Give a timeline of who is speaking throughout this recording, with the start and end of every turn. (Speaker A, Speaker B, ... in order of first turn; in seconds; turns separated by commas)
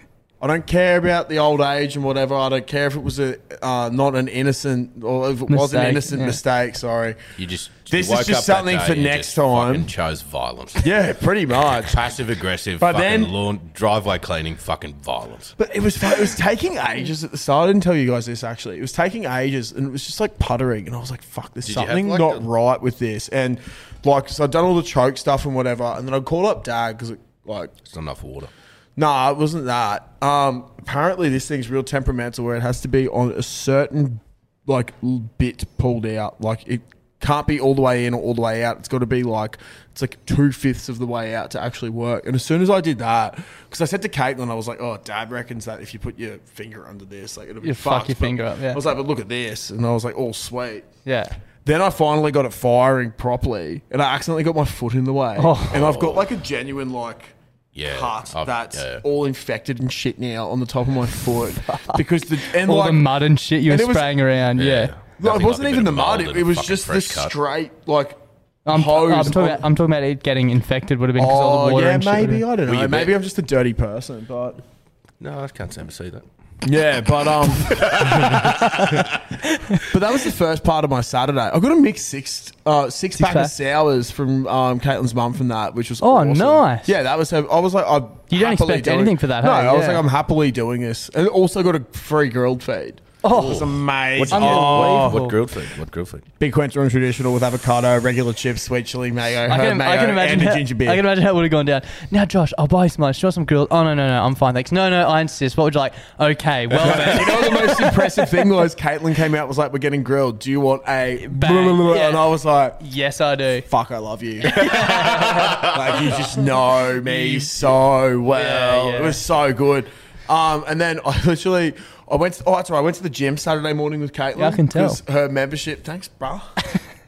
Speaker A: 0.4-7.2, Speaker B: 5.5-6.4, Speaker C: 7.4-10.9, Speaker A: 7.9-9.9, Speaker A: 10.8-12.1, Speaker C: 11.7-15.5, Speaker A: 12.8-13.3, Speaker A: 15.6-27.7, Speaker C: 21.6-22.4, Speaker C: 27.8-28.5, Speaker A: 28.9-50.9, Speaker B: 47.6-48.8, Speaker B: 51.0-51.3, Speaker A: 51.6-57.3, Speaker B: 55.4-55.8, Speaker C: 55.7-56.2, Speaker C: 57.7-59.0, Speaker A: 57.9-63.1, Speaker B: 61.7-64.9, Speaker A: 63.7-64.1, Speaker C: 64.6-67.3, Speaker A: 65.2-69.6, Speaker B: 68.7-72.5, Speaker A: 71.2-74.6, Speaker C: 72.7-73.2, Speaker C: 75.2-76.2, Speaker A: 76.6-78.6, Speaker C: 77.6-79.2, Speaker B: 78.5-78.9, Speaker B: 79.5-79.8, Speaker A: 79.9-95.2, Speaker B: 83.2-83.5, Speaker B: 86.0-86.9, Speaker B: 88.3-90.0, Speaker B: 93.2-93.7, Speaker C: 93.3-96.2, Speaker B: 94.3-95.3, Speaker A: 96.4-101.0, Speaker B: 99.5-107.9, Speaker A: 106.8-112.8, Speaker B: 111.2-112.3, Speaker B: 112.8-113.7, Speaker A: 113.7-126.5, Speaker B: 114.4-115.7, Speaker B: 117.0-117.5, Speaker B: 118.3-119.2, Speaker B: 124.3-125.0